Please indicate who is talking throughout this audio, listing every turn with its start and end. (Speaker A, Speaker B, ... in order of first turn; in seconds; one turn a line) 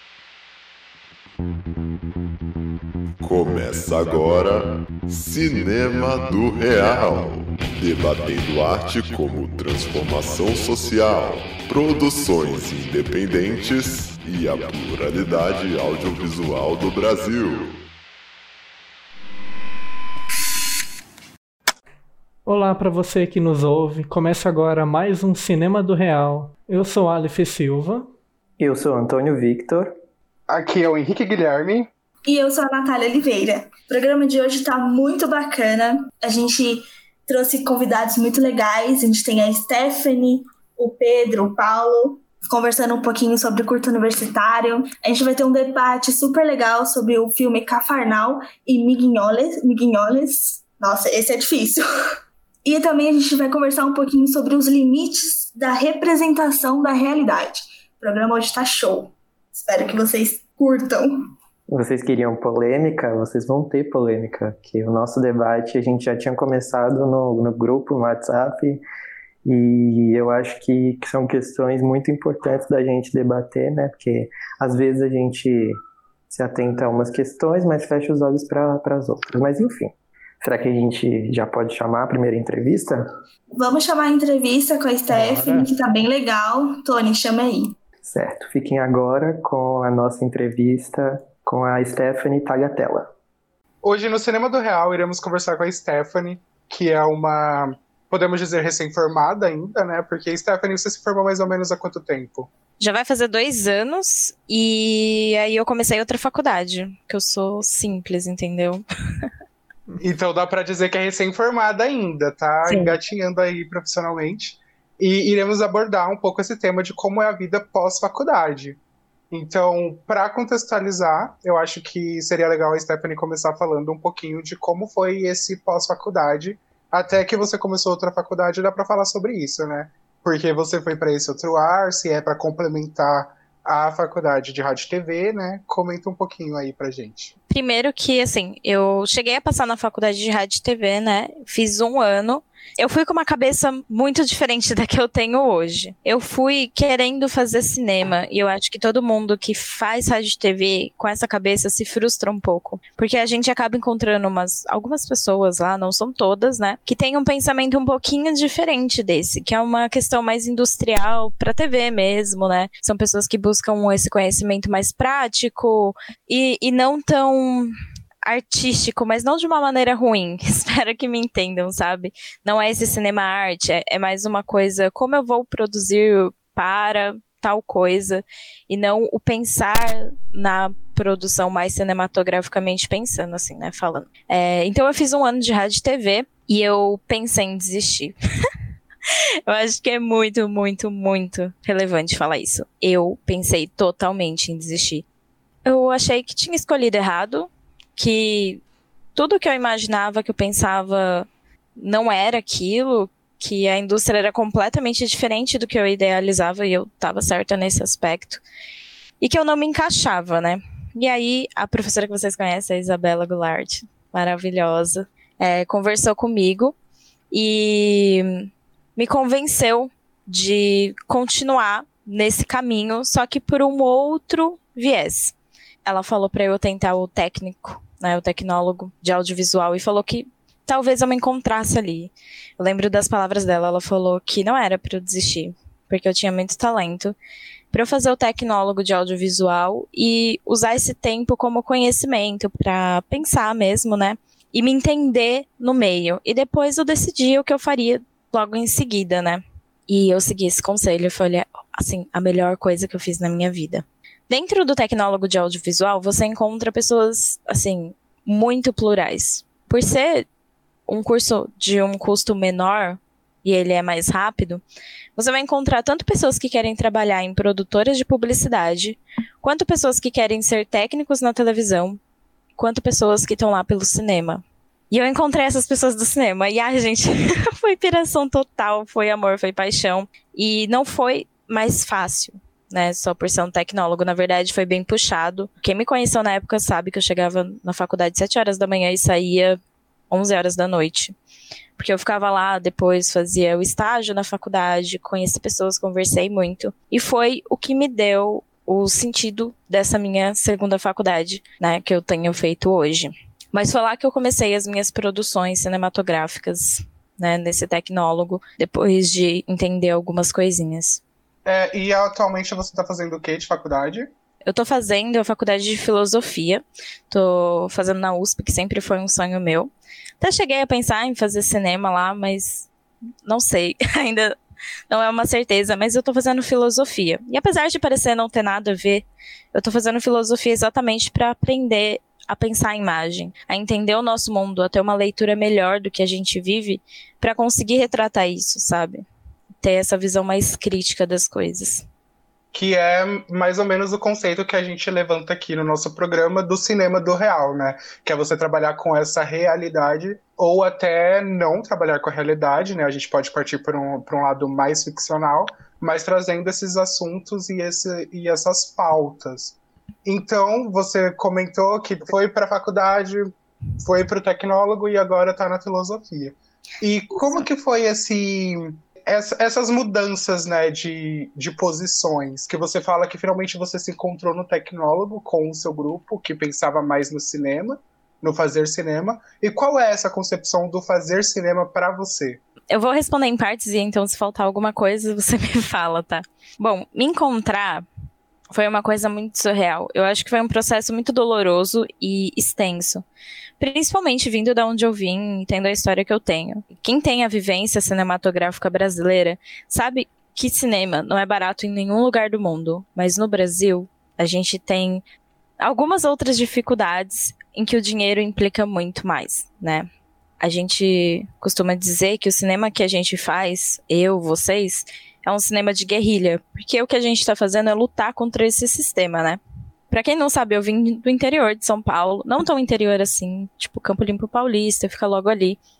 Speaker A: 3.2-17.8
Speaker B: 22.4-28.1
Speaker C: 28.6-29.9
Speaker D: 30.5-31.9
Speaker E: 32.3-51.8
Speaker E: 52.6-61.1
Speaker C: 61.7-68.8
Speaker C: 69.5-75.8
Speaker C: 76.3-83.1
Speaker E: 83.6-87.7
Speaker B: 85.1-85.7
Speaker C: 88.0-93.1
Speaker D: 93.8-102.5
Speaker F: 102.8-109.3
Speaker D: 110.0-118.8
Speaker E: 112.7-113.0
Speaker D: 119.3-137.3
Speaker F: 137.5-167.7
Speaker F: 168.2-188.1
Speaker F: 189.5-195.1
Speaker F: 195.7-198.6
Speaker F: 199.2-208.4
Speaker F: 209.2-216.8
Speaker F: 217.3-225.3
Speaker F: 225.9-237.2
Speaker F: 237.7-260.3
Speaker F: 260.9-264.6
Speaker F: 265.2-272.0
Speaker F: 272.6-289.6
Speaker F: 290.1-291.1
Speaker F: 291.8-311.0
Speaker D: 311.4-314.1
Speaker F: 314.5-322.7
Speaker F: 323.3-324.4
Speaker F: 324.9-339.0
Speaker F: 339.6-341.9
Speaker D: 342.5-363.3
Speaker D: 363.8-382.4
Speaker F: 382.7-387.9
Speaker F: 388.5-393.1
Speaker F: 393.6-405.0
Speaker F: 405.6-409.9
Speaker F: 410.4-419.4
Speaker F: 419.9-425.6